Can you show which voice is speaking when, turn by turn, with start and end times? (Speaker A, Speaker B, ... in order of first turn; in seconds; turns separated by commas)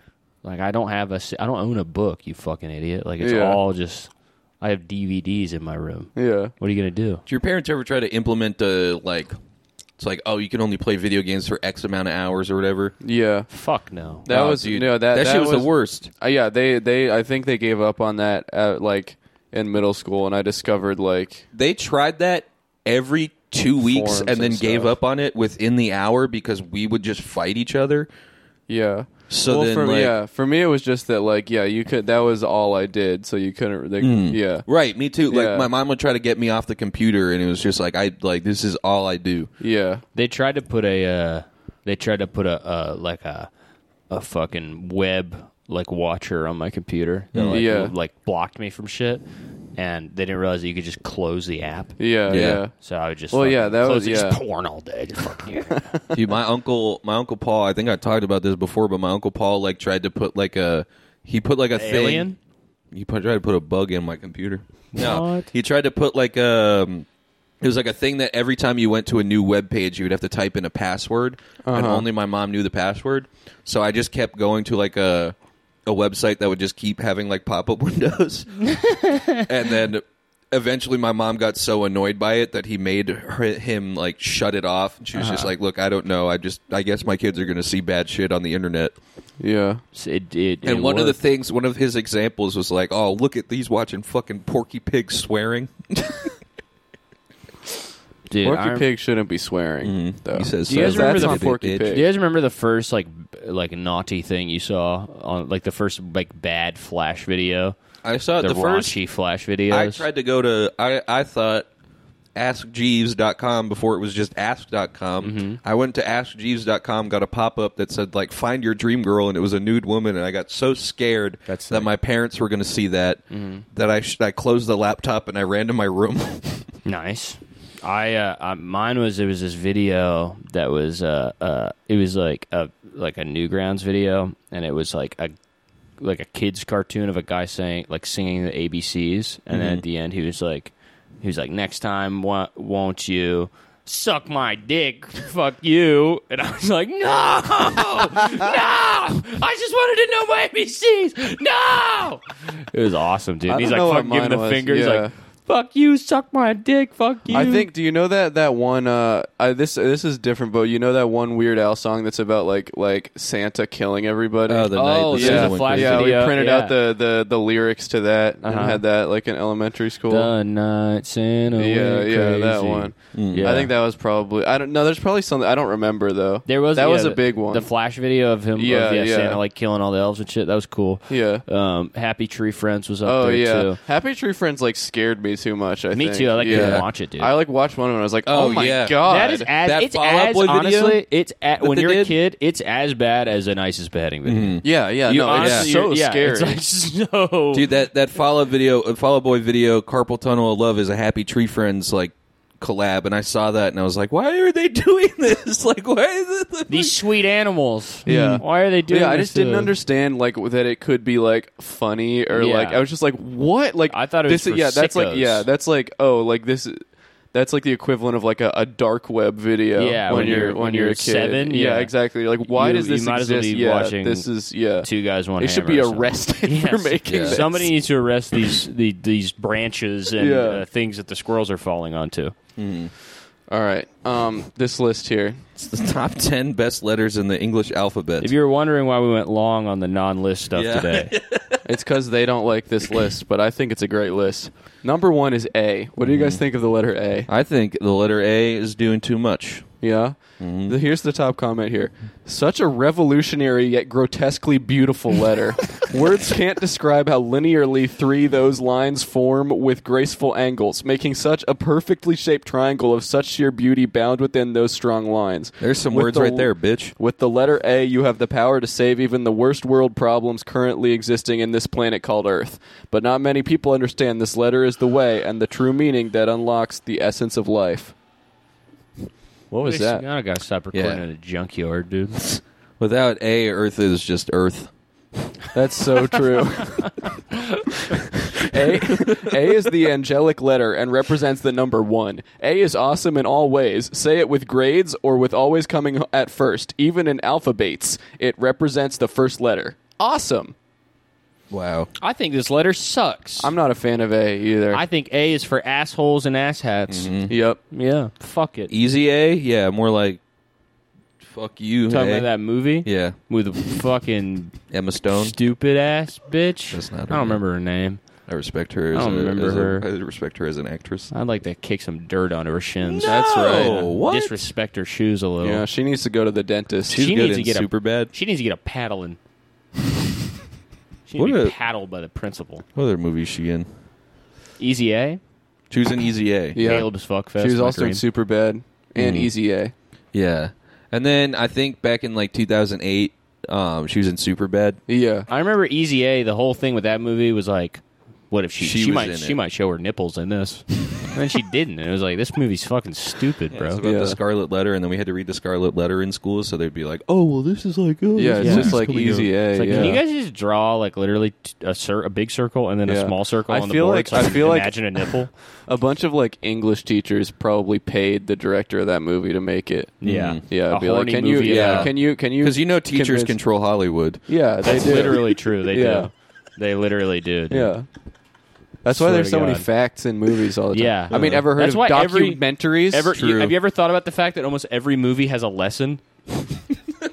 Speaker A: 0.4-7.2, Speaker B: 3.2-3.6, Speaker B: 6.1-6.5, Speaker C: 7.3-9.3, Speaker C: 10.0-12.9, Speaker B: 13.0-13.5, Speaker A: 13.5-14.2, Speaker B: 14.2-21.4, Speaker C: 14.3-16.1, Speaker C: 21.5-28.1, Speaker B: 23.8-24.9, Speaker B: 28.7-34.7, Speaker C: 29.3-30.1, Speaker C: 34.0-39.5, Speaker B: 35.3-35.7, Speaker B: 39.6-40.0, Speaker A: 40.1-43.5, Speaker A: 44.1-49.2, Speaker C: 47.3-47.6, Speaker B: 47.5-47.9, Speaker A: 49.8-55.9, Speaker B: 52.0-52.7, Speaker C: 52.3-52.6, Speaker B: 53.3-54.4, Speaker C: 56.1-62.3, Speaker A: 61.7-62.4, Speaker C: 62.9-67.0, Speaker A: 64.9-65.5, Speaker C: 67.6-75.3, Speaker B: 71.6-72.0, Speaker C: 75.8-78.8, Speaker A: 78.8-79.4, Speaker C: 79.3-88.9, Speaker B: 89.4-89.8, Speaker A: 89.9-91.2, Speaker C: 90.6-96.3, Speaker A: 98.3-98.8, Speaker B: 98.4-102.1, Speaker C: 99.8-102.0, Speaker A: 100.7-107.7, Speaker C: 108.0-109.0, Speaker A: 108.4-110.0, Speaker C: 109.7-111.7, Speaker C: 112.3-126.7, Speaker A: 115.2-115.6, Speaker A: 121.5-121.9, Speaker A: 123.3-123.6, Speaker A: 126.8-135.3, Speaker A: 136.0-157.7, Speaker C: 139.5-139.8, Speaker B: 153.5-155.1, Speaker B: 157.3-170.3, Speaker C: 164.5-166.2, Speaker A: 164.7-166.8, Speaker A: 168.4-168.8, Speaker A: 170.1-173.7, Speaker B: 171.6-177.7, Speaker C: 173.1-173.5, Speaker A: 176.4-183.8, Speaker B: 178.5-179.4, Speaker B: 181.1-181.4, Speaker B: 183.0-189.5, Speaker A: 185.9-187.3, Speaker C: 186.4-186.9, Speaker C: 188.2-189.1, Speaker A: 189.0-197.7, Speaker C: 189.6-191.0, Speaker C: 191.6-192.1, Speaker C: 194.2-194.7, Speaker B: 194.6-196.6, Speaker C: 195.3-195.7, Speaker C: 197.5-207.0, Speaker A: 206.7-209.7, Speaker B: 208.1-227.7, Speaker C: 208.1-208.4, Speaker A: 212.3-212.8, Speaker A: 213.9-215.5, Speaker A: 219.8-221.9, Speaker A: 222.5-224.3, Speaker A: 224.8-232.3, Speaker C: 227.0-227.4, Speaker B: 230.2-230.6, Speaker C: 232.6-232.9, Speaker B: 233.5-235.4, Speaker C: 235.6-238.3, Speaker A: 238.2-241.1, Speaker C: 240.6-241.6, Speaker B: 241.6-247.3, Speaker C: 246.0-246.4, Speaker C: 247.3-249.8, Speaker B: 249.8-277.9, Speaker C: 250.4-250.8, Speaker C: 265.6-266.9, Speaker B: 279.5-280.0, Speaker A: 279.6-282.2, Speaker C: 280.7-281.0, Speaker C: 282.2-284.7, Speaker B: 285.5-286.9, Speaker B: 288.4-300.5, Speaker C: 288.9-289.4, Speaker C: 301.5-301.9, Speaker A: 302.0-303.5, Speaker B: 303.4-304.8, Speaker A: 304.7-307.1, Speaker C: 306.9-307.3, Speaker B: 307.3-307.6, Speaker A: 307.7-308.7, Speaker C: 308.7-310.2, Speaker C: 311.2-312.3, Speaker A: 311.9-314.6, Speaker C: 312.8-313.2, Speaker C: 314.7-315.4, Speaker A: 315.1-318.0, Speaker C: 316.7-317.4, Speaker C: 318.3-321.1, Speaker A: 318.9-319.9, Speaker A: 321.1-325.6, Speaker C: 322.9-324.3, Speaker B: 323.5-323.7, Speaker B: 325.4-327.1, Speaker C: 326.9-328.1, Speaker A: 326.9-329.2, Speaker A: 331.1-332.6, Speaker C: 331.1-331.5, Speaker C: 332.8-333.7, Speaker A: 334.6-335.2, Speaker C: 335.7-336.9, Speaker B: 336.5-339.7, Speaker A: 336.6-338.0, Speaker C: 338.9-339.3, Speaker C: 340.1-344.8, Speaker B: 344.9-345.3, Speaker A: 345.3-353.8, Speaker C: 348.6-349.4, Speaker C: 353.5-360.0, Speaker B: 353.8-354.2, Speaker B: 358.1-360.0, Speaker A: 358.4-358.8, Speaker A: 359.5-365.3, Speaker B: 362.9-373.4, Speaker A: 370.0-371.9, Speaker C: 370.0-370.4, Speaker C: 371.4-374.3, Speaker B: 374.3-376.1, Speaker A: 374.6-377.7, Speaker B: 377.5-377.9, Speaker B: 378.8-383.1, Speaker A: 378.9-379.7, Speaker A: 380.7-386.0, Speaker C: 381.1-381.4, Speaker C: 383.1-383.5